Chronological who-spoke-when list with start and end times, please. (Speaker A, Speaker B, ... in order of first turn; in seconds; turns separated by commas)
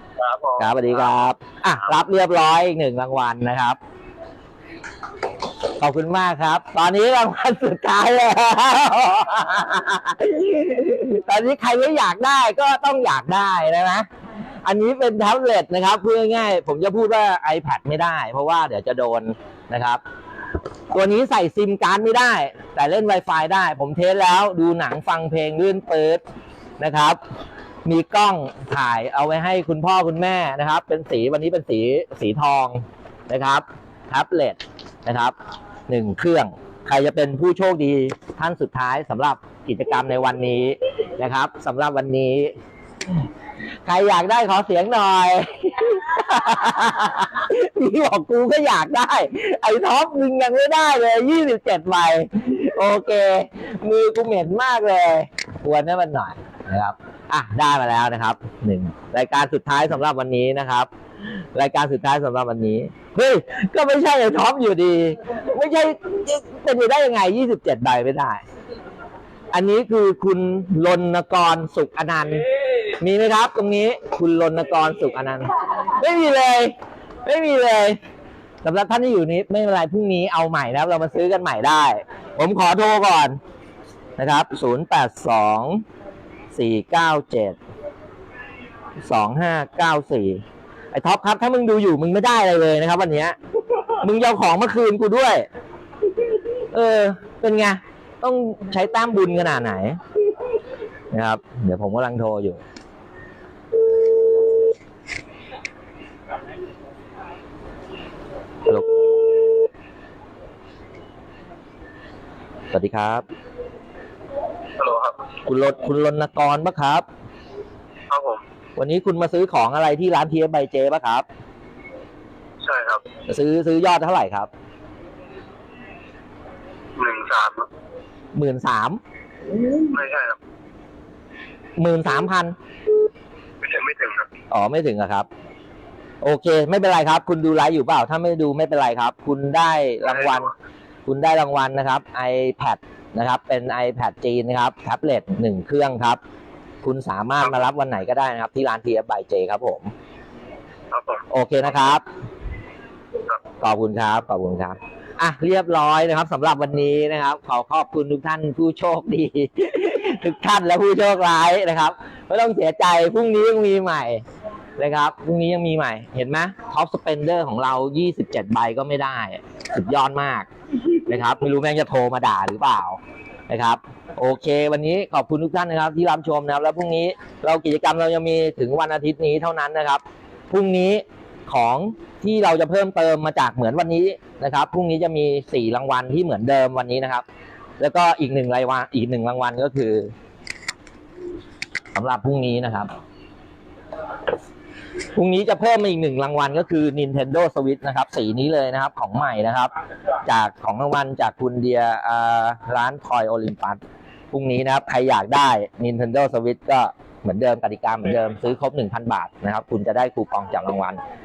Speaker A: 0.2-1.1, Speaker B: 0.6-3.8, Speaker B: 5.8-14.1, Speaker B: 14.7-20.0, Speaker B: 20.9-26.2, Speaker B: 26.8-27.2, Speaker B: 27.9-35.4, Speaker B: 35.9-42.5, Speaker B: 43.9-60.9, Speaker B: 61.5-68.4, Speaker B: 69.5-76.7, Speaker B: 77.2-78.0, Speaker B: 78.6-83.4, Speaker B: 84.2-85.8, Speaker B: 86.5-87.6, Speaker B: 89.0-90.4, Speaker B: 90.9-93.4, Speaker B: 94.0-95.5, Speaker B: 96.7-100.0, Speaker B: 101.1-102.6, Speaker B: 112.7-113.2, Speaker A: 114.8-115.2, Speaker B: 115.5-117.0, Speaker A: 118.1-118.4, Speaker B: 118.8-121.2, Speaker A: 122.6-123.0, Speaker B: 123.3-124.5, Speaker A: 127.0-127.7, Speaker B: 128.3-129.0, Speaker A: 129.7-130.4, Speaker B: 131.8-132.6, Speaker A: 133.6-134.3, Speaker B: 134.5-135.3, Speaker B: 136.2-140.5, Speaker A: 140.1-140.5, Speaker B: 141.1-146.2, Speaker B: 146.8-149.9, Speaker A: 150.9-151.2, Speaker B: 151.3-152.0, Speaker B: 153.6-164.2, Speaker B: 164.8-170.5, Speaker B: 171.1-187.2, Speaker B: 187.8-190.1, Speaker B: 191.9-192.9, Speaker B: 195.2-199.7, Speaker B: 200.2-203.8, Speaker B: 204.3-211.0